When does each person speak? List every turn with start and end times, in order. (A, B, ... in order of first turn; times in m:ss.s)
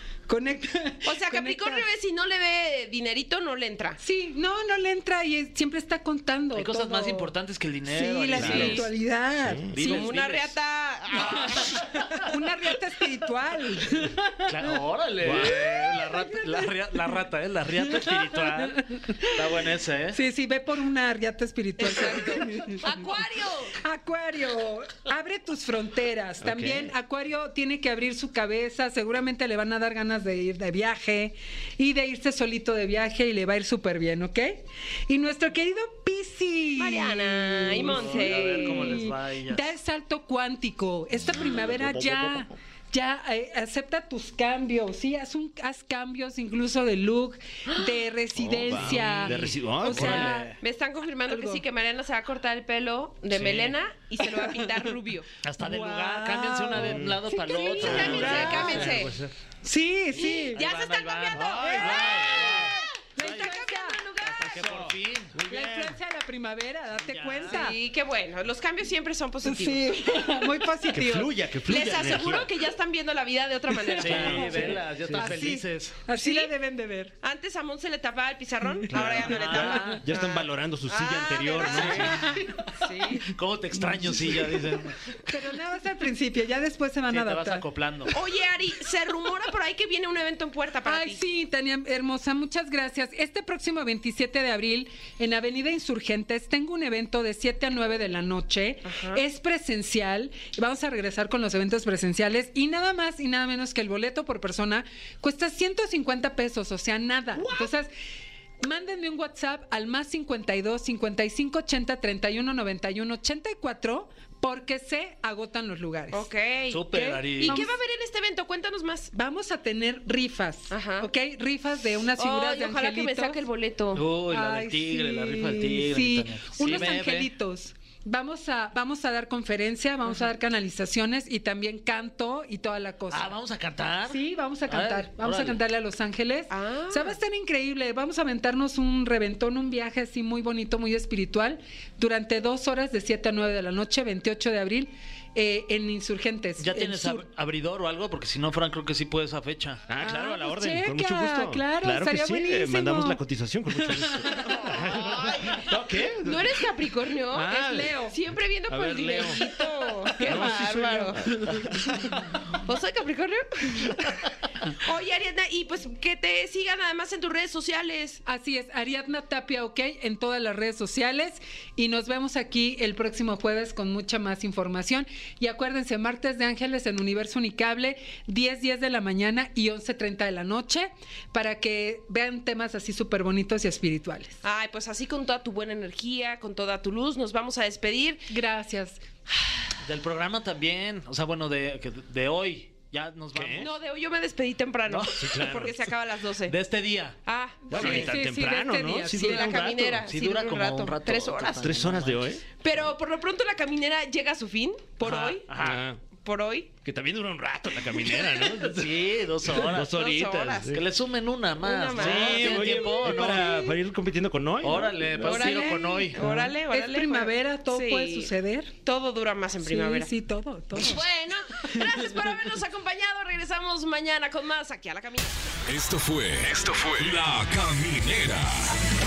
0:00.3-0:01.8 A
0:01.0-0:04.0 B
0:04.0-0:07.3 A
0:06.5-0:08.9 C
0:07.9-0:10.1 A
0:08.4-0:08.9 D
0:08.4-0:08.9 B
0:09.4-0:09.8 D
0:09.7-0:10.5 C
0:09.8-0:11.6 B
0:11.1-0:12.3 C
0:12.1-0:16.6 A
0:14.5-0:20.2 C
0:15.2-0:15.6 D
0:18.0-0:19.3 A
0:20.1-0:22.8 A
0:21.8-0:23.8 B
0:23.8-0:50.6 A
0:26.4-0:26.9 D
0:36.8-0:39.0 B
0:37.7-0:39.7 C
0:41.4-0:42.5 D
0:48.4-0:50.3 D
0:48.8-0:50.6 C
0:50.0-0:55.3 B
0:51.3-0:51.6 A
0:53.3-0:53.8 C
0:55.4-0:59.0 C
0:55.6-0:58.9 A
0:56.8-0:57.2 D
0:57.5-0:59.1 B
0:57.8-0:59.3 D
0:59.6-1:00.6 A
1:00.2-1:04.8 B
1:00.5-1:03.6 C
1:01.4-1:01.9 D
1:01.8-1:02.5 A
1:03.1-1:04.5 A
1:04.2-1:05.5 C
1:04.6-1:06.0 D
1:05.5-1:07.8 A
1:07.0-1:07.7 C
1:07.4-1:10.0 B
1:09.4-1:11.3 A
1:10.9-1:12.6 D
1:11.6-1:14.8 B
1:13.9-1:15.4 D
1:14.0-1:16.0 C
1:14.6-1:17.1 A
1:16.2-1:16.5 B
1:17.2-1:22.2 B
1:18.9-1:22.3 D
1:19.0-1:20.0 C
1:19.5-1:20.0 A
1:21.7-1:22.5 A
1:22.8-1:23.3 B
1:23.3-1:25.4 C
1:23.8-1:24.6 A
1:25.3-1:27.6 A
1:27.1-1:28.1 C
1:28.1-1:31.2 B
1:30.8-1:47.9 A
1:38.8-1:39.2 B
1:47.4-1:47.6 B
1:48.6-1:56.3 A
1:56.1-1:59.1 B
1:56.7-1:57.6 C
1:56.9-1:57.8 A
1:59.1-2:03.4 A
2:00.7-2:01.1 B
2:02.2-2:04.0 B
2:03.9-2:07.3 C
2:04.3-2:13.3 A
2:13.1-2:15.6 C
2:14.1-2:27.3 A
2:16.5-2:17.2 B
2:26.6-2:29.8 C
2:29.9-2:36.6 D
2:30.0-2:33.2 A
2:34.1-2:34.8 A
2:35.0-2:35.7 B
2:36.2-2:41.8 B
2:37.3-2:37.9 D
2:37.5-2:38.2 A
2:38.7-2:39.4 D
2:40.1-2:40.6 A
2:40.2-2:42.0 D
2:42.5-2:48.2 B
2:48.3-3:04.4 A
3:04.4-3:08.3 B
3:08.3-3:09.0 A
3:09.8-3:13.7 C
3:13.3-3:13.7 D
3:13.6-3:16.6 B
3:14.9-3:15.7 C
3:15.2-3:15.8 D
3:16.5-3:17.2 C
3:17.3-3:18.1 B
3:17.7-3:19.6 D
3:17.7-3:19.5 A
3:17.8-3:18.1 C
3:19.2-3:21.7 B
3:19.3-3:22.4 C
3:21.6-3:22.4 D
3:22.6-3:25.5 B
3:25.0-3:25.8 C
3:25.6-3:26.0 D
3:26.1-3:26.7 B
3:26.8-3:30.8 D
3:28.4-3:30.1 C
3:29.7-3:30.8 B
3:30.7-3:33.7 C
3:31.6-3:33.7 B
3:31.9-3:35.5 D
3:34.6-3:36.5 C
3:35.2-3:38.3 B
3:36.2-3:38.7 A
3:38.8-3:40.1 B
3:39.6-3:41.0 A
3:40.7-3:45.4 B
3:45.6-3:48.8 E